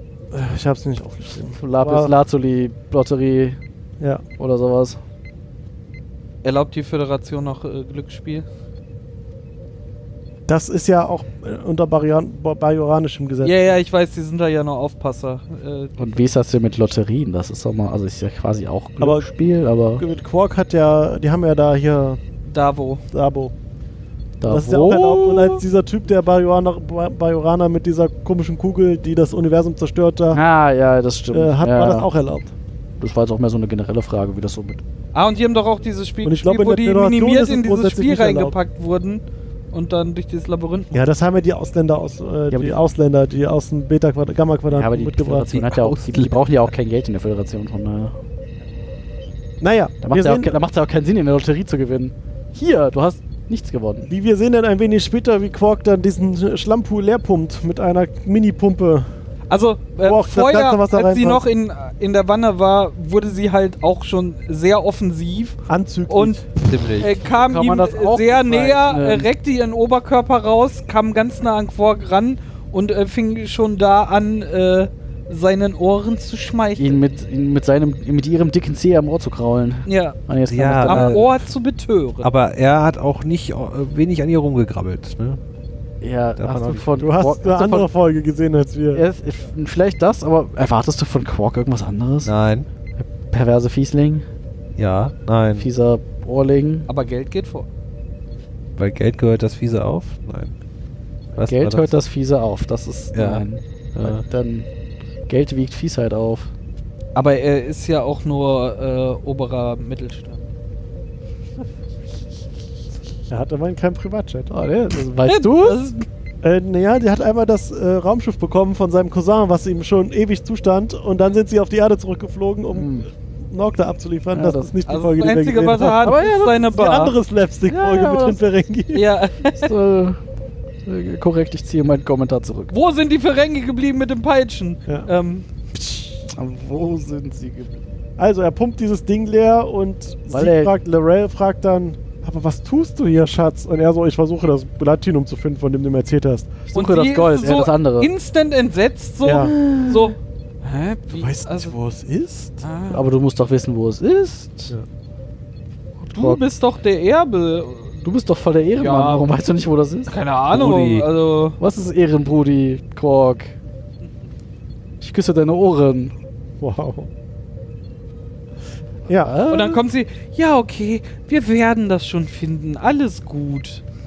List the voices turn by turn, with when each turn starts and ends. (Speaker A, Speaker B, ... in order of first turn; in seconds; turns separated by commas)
Speaker A: 0.3-2.1, Speaker B: 1.5-3.6, Speaker B: 4.4-5.0, Speaker C: 6.4-8.4, Speaker A: 10.5-13.6, Speaker C: 13.4-16.0, Speaker B: 16.0-20.0, Speaker A: 19.0-19.3, Speaker A: 20.0-22.2, Speaker C: 22.4-23.0, Speaker A: 23.1-23.5, Speaker B: 24.4-25.6, Speaker A: 24.4-30.4, Speaker B: 30.3-32.1, Speaker A: 31.3-32.5, Speaker B: 33.0-34.8, Speaker C: 35.1-39.2, Speaker A: 36.2-38.5, Speaker C: 39.7-40.9, Speaker A: 40.9-45.5, Speaker B: 42.5-42.8, Speaker B: 44.7-48.1, Speaker D: 45.5-46.4, Speaker A: 49.6-50.6, Speaker B: 50.0-54.1, Speaker A: 54.1-59.1, Speaker C: 59.5-66.4, Speaker A: 60.0-61.4, Speaker A: 65.7-66.4, Speaker D: 66.6-67.2, Speaker C: 67.0-77.0, Speaker B: 67.3-69.3, Speaker B: 76.8-81.2, Speaker C: 79.9-80.2, Speaker D: 80.5-81.3, Speaker C: 80.8-82.3, Speaker D: 82.2-85.4, Speaker B: 86.0-87.9, Speaker D: 86.4-87.0, Speaker A: 87.0-89.0, Speaker B: 88.9-92.3, Speaker D: 92.2-92.7, Speaker B: 93.0-94.2, Speaker D: 94.8-95.7, Speaker B: 95.6-96.9, Speaker C: 96.9-97.7, Speaker D: 98.8-100.5, Speaker D: 101.3-102.0, Speaker B: 101.4-104.7, Speaker D: 103.1-104.2, Speaker B: 105.3-106.5, Speaker C: 107.1-110.5, Speaker A: 113.3-114.5, Speaker B: 114.5-115.8, Speaker C: 115.3-116.0, Speaker A: 116.4-129.0, Speaker B: 122.7-123.1, Speaker B: 124.3-124.7, Speaker C: 124.8-127.2, Speaker B: 126.0-126.7, Speaker B: 127.7-128.4, Speaker C: 128.9-129.7, Speaker B: 129.5-130.2, Speaker B: 130.8-132.7, Speaker C: 132.7-135.4, Speaker B: 135.7-137.8, Speaker A: 138.2-146.5, Speaker B: 140.3-140.7, Speaker B: 146.7-148.1, Speaker C: 146.7-151.7, Speaker A: 149.2-149.5, Speaker B: 149.5-150.1, Speaker A: 151.1-152.6, Speaker C: 152.6-153.1, Speaker B: 152.9-154.7, Speaker B: 156.1-156.4, Speaker C: 156.1-158.0, Speaker B: 158.0-160.1, Speaker C: 158.8-159.3, Speaker C: 160.1-161.6, Speaker D: 160.5-161.1, Speaker B: 161.6-163.5, Speaker B: 165.0-166.1, Speaker A: 166.6-167.1, Speaker A: 169.1-169.3, Speaker B: 169.1-169.8, Speaker C: 169.5-173.8